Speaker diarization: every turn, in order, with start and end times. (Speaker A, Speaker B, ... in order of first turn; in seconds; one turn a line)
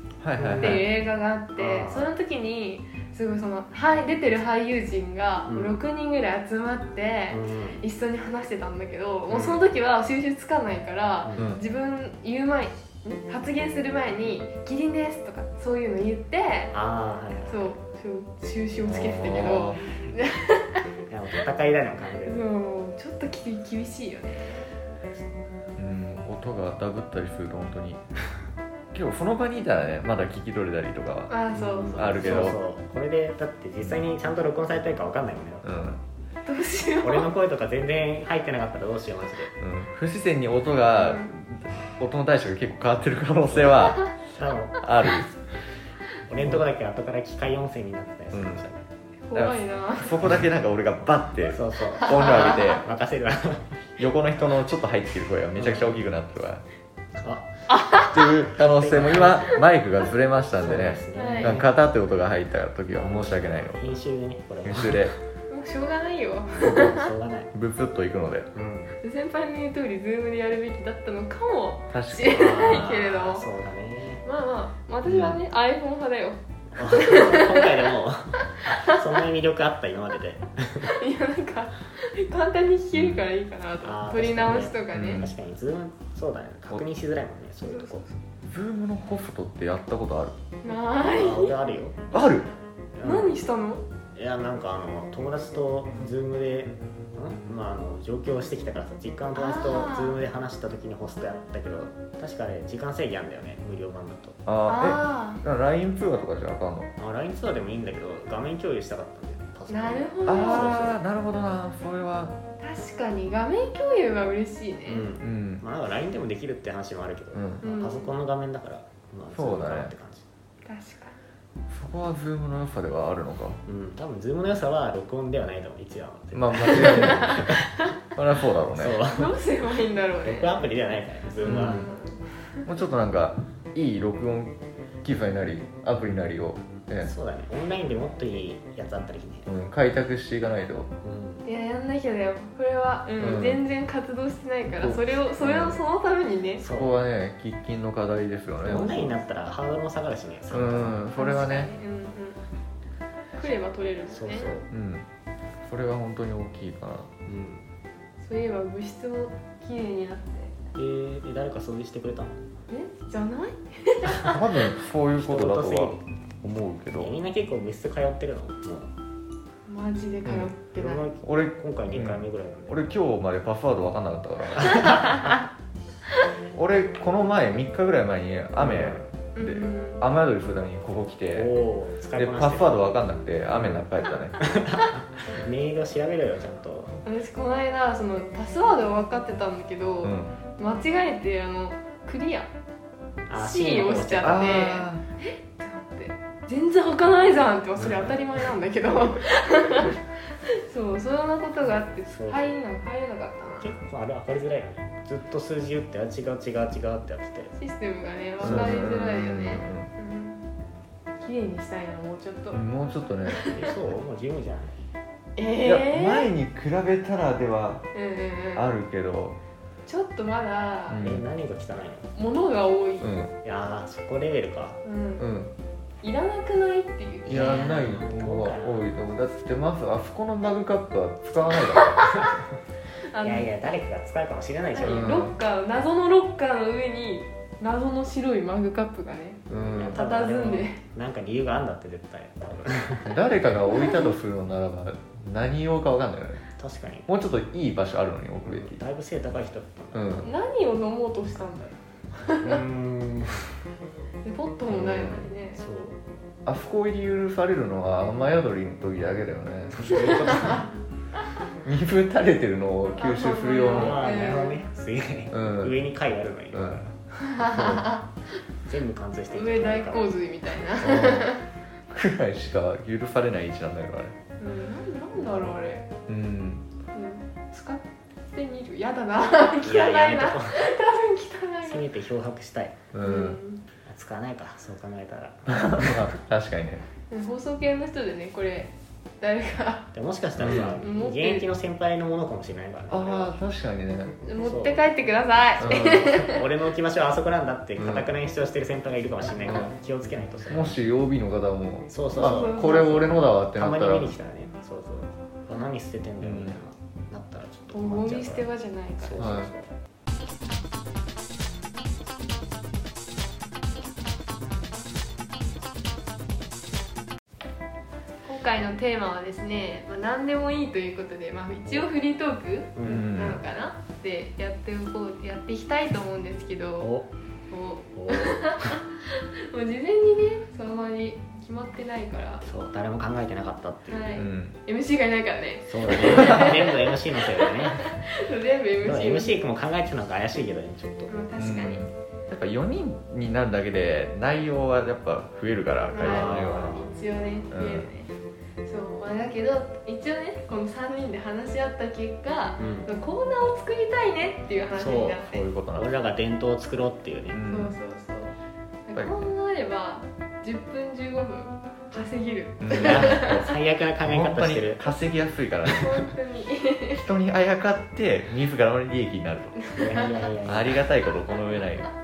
Speaker A: 0.2-0.8
Speaker B: 0.4-0.8
Speaker C: 0.6-16.8
Speaker B: 1.6-2.1
Speaker B: 5.5-5.7
Speaker B: 7.3-7.8
Speaker B: 9.3-9.6
Speaker B: 11.2-11.5
Speaker A: 11.4-11.6
Speaker B: 16.7-17.8
Speaker C: 17.5-20.8
Speaker A: 18.8-19.9
Speaker B: 21.1-22.5
Speaker C: 22.2-24.7
Speaker A: 25.8-28.0
Speaker A: 28.9-31.3
Speaker C: 31.3-32.5
Speaker B: 31.5-35.7
Speaker A: 31.9-32.6
Speaker A: 35.6-36.0
Speaker C: 36.5-37.3
Speaker B: 37.0-39.5
Speaker A: 39.6-44.2
Speaker C: 41.0-41.3
Speaker B: 43.5-44.8
Speaker A: 44.8-45.4
Speaker B: 46.2-48.9
Speaker A: 48.3-48.6
Speaker C: 49.3-50.3
Speaker A: 49.3-52.8
Speaker B: 51.5-53.7
Speaker A: 54.0-56.6
Speaker B: 55.5-56.0
Speaker B: 57.1-57.5
Speaker C: 57.7-58.3
Speaker A: 58.0-63.9
Speaker B: 58.5-59.7
Speaker B: 60.5-61.7
Speaker C: 61.1-61.6
Speaker B: 62.9-65.1
Speaker A: 64.6-65.1
Speaker C: 65.5-67.1
Speaker B: 66.5-67.5
Speaker A: 67.5-68.5
Speaker B: 68.5-68.9
Speaker C: 69.0-73.5
Speaker A: 71.9-72.8
Speaker B: 72.3-74.2
Speaker C: 74.2-77.9
Speaker A: 75.1-75.4
Speaker B: 76.7-80.9
Speaker C: 78.5-79.0
Speaker C: 80.8-85.2
Speaker A: 82.9-83.2
Speaker B: 83.8-88.0
Speaker A: 84.9-85.3
Speaker C: 87.6-88.1
Speaker A: 88.5-90.3
Speaker C: 90.6-91.5
Speaker B: 91.0-92.1
Speaker A: 92.1-92.5
Speaker B: 93.0-93.4
Speaker C: 93.0-93.8
Speaker B: 94.1-104.4
Speaker C: 99.3-100.2
Speaker A: 104.5-106.9
Speaker C: 104.7-105.4
Speaker B: 107.0-111.0
Speaker C: 109.7-111.0
Speaker A: 110.3-112.3
Speaker C: 112.6-115.1
Speaker B: 114.9-120.3
Speaker A: 115.2-115.6
Speaker A: 117.3-117.6
Speaker C: 117.6-118.1
Speaker A: 119.3-119.9
Speaker C: 120.6-121.2
Speaker A: 121.7-123.6
Speaker B: 123.7-127.8
Speaker A: 126.3-127.6
Speaker C: 126.7-127.5
Speaker A: 128.1-129.0
Speaker B: 128.7-129.3
Speaker C: 129.1-130.6
Speaker B: 130.2-131.9
Speaker C: 131.4-132.2
Speaker A: 131.4-131.9
Speaker A: 132.6-137.1
Speaker B: 137.0-139.5
Speaker A: 139.5-140.9
Speaker B: 141.0-141.4
Speaker C: 141.4-146.6
Speaker A: 143.2-143.6
Speaker A: 144.7-145.8
Speaker B: 146.6-147.0
Speaker A: 146.7-149.2
Speaker B: 148.6-151.1
Speaker A: 150.5-151.7
Speaker C: 151.1-152.4
Speaker C: 153.3-154.6
Speaker B: 154.1-154.7
Speaker A: 154.7-155.0
Speaker A: 155.6-157.1
Speaker B: 157.2-157.7
Speaker C: 158.2-160.5
Speaker B: 160.8-162.3
Speaker C: 162.7-164.6
Speaker A: 164.2-167.1
Speaker B: 165.2-166.0
Speaker B: 166.9-168.9
Speaker C: 169.7-171.0
Speaker A: 170.2-170.5
Speaker B: 170.8-172.8
Speaker A: 171.2-175.3
Speaker B: 174.6-175.3
Speaker A: 176.5-181.5
Speaker B: 178.6-179.1
Speaker C: 179.3-180.0
Speaker B: 181.3-182.9
Speaker A: 182.2-184.4
Speaker B: 183.5-183.8
Speaker B: 184.4-187.0
Speaker C: 187.0-192.5
Speaker A: 190.0-190.3
Speaker B: 193.3-194.7
Speaker C: 193.3-203.7
Speaker A: 194.2-195.0
Speaker B: 197.8-198.1
Speaker B: 202.1-202.5
Speaker B: 203.6-207.5
Speaker C: 207.6-210.4
Speaker B: 208.4-208.8
Speaker A: 208.4-209.9
Speaker C: 211.2-212.6
Speaker A: 212.5-213.5
Speaker C: 213.2-213.6
Speaker B: 213.5-214.7
Speaker C: 215.3-216.3
Speaker A: 215.6-217.9
Speaker C: 217.9-218.7
Speaker A: 218.5-219.4
Speaker C: 219.8-221.0
Speaker A: 220.9-221.2
Speaker B: 221.0-222.1
Speaker C: 222.1-223.1
Speaker A: 223.0-223.3
Speaker B: 223.4-224.8
Speaker C: 224.8-225.2
Speaker A: 225.2-225.5
Speaker C: 226.0-227.8
Speaker B: 227.2-228.9
Speaker A: 227.2-232.1
Speaker C: 231.9-232.3
Speaker C: 233.1-233.5
Speaker B: 233.2-235.2
Speaker C: 234.8-240.8
Speaker A: 234.8-235.3
Speaker A: 239.5-240.0
Speaker B: 239.5-243.1
Speaker A: 243.0-246.4
Speaker C: 243.7-244.1
Speaker B: 246.6-247.1
Speaker A: 247.1-248.8
Speaker B: 248.4-250.3
Speaker A: 249.9-250.3
Speaker C: 250.2-252.6
Speaker B: 252.4-253.5
Speaker C: 254.2-255.6
Speaker B: 254.7-256.0
Speaker A: 256.4-260.5
Speaker B: 259.7-260.7
Speaker C: 259.9-260.6
Speaker A: 261.6-264.0
Speaker C: 263.0-264.6
Speaker B: 263.7-268.0
Speaker A: 265.3-265.8
Speaker A: 266.5-266.8
Speaker C: 267.2-268.0
Speaker B: 268.6-270.1
Speaker C: 269.3-271.4
Speaker A: 270.8-271.4
Speaker A: 271.9-274.1
Speaker C: 274.4-275.9
Speaker A: 276.1-276.6
Speaker C: 276.9-281.9
Speaker B: 279.6-280.6
Speaker B: 281.6-282.9
Speaker A: 282.9-283.4
Speaker C: 283.0-283.6
Speaker B: 283.8-286.1
Speaker A: 285.5-286.8
Speaker C: 287.1-289.9
Speaker B: 289.9-293.4
Speaker A: 290.4-290.8
Speaker C: 290.5-291.5
Speaker A: 292.9-294.1
Speaker C: 294.2-296.4
Speaker B: 294.4-294.8
Speaker A: 295.6-296.1
Speaker B: 295.6-300.8
Speaker A: 297.8-298.1
Speaker A: 299.4-299.7
Speaker A: 300.5-304.1
Speaker B: 301.9-308.5
Speaker C: 302.1-303.1
Speaker A: 306.2-306.6
Speaker C: 307.7-309.4
Speaker B: 309.0-309.7
Speaker A: 309.2-309.5
Speaker C: 318.2-326.9
Speaker B: 322.7-323.1
Speaker A: 322.9-323.4
Speaker B: 326.8-327.1
Speaker C: 327.5-332.4
Speaker B: 327.9-328.8
Speaker B: 332.4-334.2
Speaker C: 333.9-339.4
Speaker A: 334.1-334.6
Speaker B: 335.7-337.9
Speaker A: 336.0-336.5
Speaker B: 338.8-341.1
Speaker C: 341.1-341.9
Speaker A: 341.4-346.8
Speaker C: 345.9-348.1
Speaker B: 346.0-346.9
Speaker A: 347.5-347.9
Speaker C: 348.6-355.4
Speaker B: 352.6-352.9
Speaker B: 354.8-355.2
Speaker A: 355.2-355.9
Speaker B: 355.7-357.4
Speaker A: 357.3-357.7
Speaker C: 357.5-358.3
Speaker C: 358.9-363.5
Speaker A: 358.9-359.3
Speaker A: 362.6-363.4
Speaker B: 362.7-364.9
Speaker A: 364.0-366.0
Speaker C: 365.7-367.0
Speaker A: 366.9-369.7
Speaker C: 369.6-370.1
Speaker B: 369.7-370.9
Speaker A: 370.4-371.9